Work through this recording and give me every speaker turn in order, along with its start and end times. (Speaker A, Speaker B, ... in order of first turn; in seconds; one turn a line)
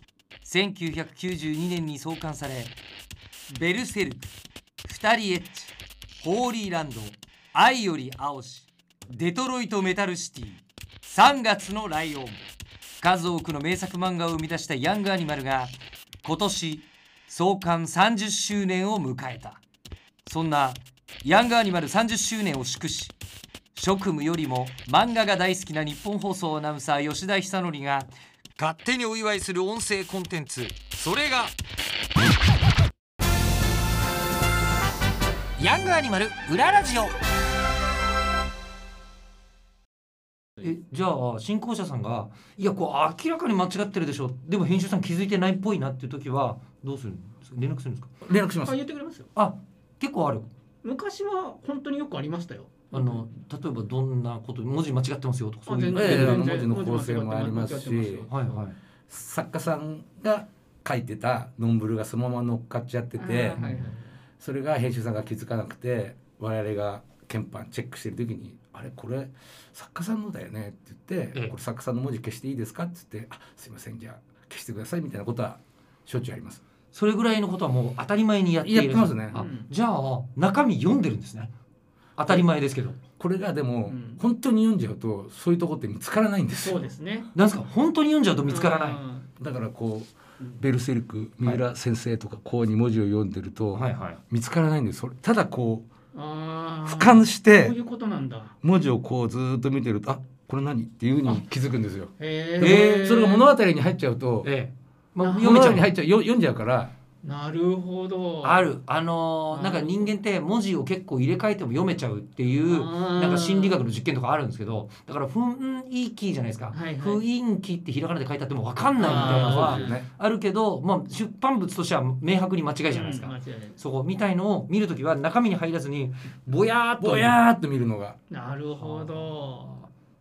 Speaker A: 0.4-2.7
Speaker A: 3.5-12.5
Speaker A: 13.0-19.6
Speaker A: 20.3-23.1
Speaker A: 23.8-31.6
Speaker A: 35.6-37.2
Speaker A: 40.6-48.1
Speaker B: 48.2-48.8
Speaker C: 48.3-49.3
Speaker A: 49.4-50.5
Speaker C: 50.8-53.2
Speaker A: 52.9-56.5
Speaker C: 55.7-58.7
Speaker B: 55.9-58.3
Speaker A: 58.3-58.8
Speaker B: 59.1-63.6
Speaker C: 63.2-64.2
Speaker A: 63.5-63.9
Speaker B: 64.4-76.6
Speaker A: 76.9-81.5
Speaker B: 78.6-79.5
Speaker C: 79.3-79.7
Speaker A: 82.2-83.0
Speaker B: 83.2-86.9
Speaker C: 83.9-84.2
Speaker C: 86.6-87.3
Speaker A: 87.3-89.0
Speaker C: 88.5-89.3
Speaker B: 89.4-95.9
Speaker A: 93.7-94.2
Speaker C: 96.1-98.5
Speaker B: 96.9-97.8
Speaker B: 98.6-104.5
Speaker C: 102.2-103.5
Speaker A: 102.6-103.1
Speaker A: 104.4-105.9
Speaker C: 105.2-105.7
Speaker B: 105.4-106.9
Speaker C: 107.2-108.7
Speaker A: 108.4-127.4
Speaker C: 109.5-110.1
Speaker C: 112.6-113.8
Speaker C: 116.7-117.2
Speaker C: 119.0-120.0
Speaker B: 119.0-120.1
Speaker C: 122.9-123.8
Speaker B: 127.0-128.2
Speaker C: 128.3-129.8
Speaker A: 128.8-129.9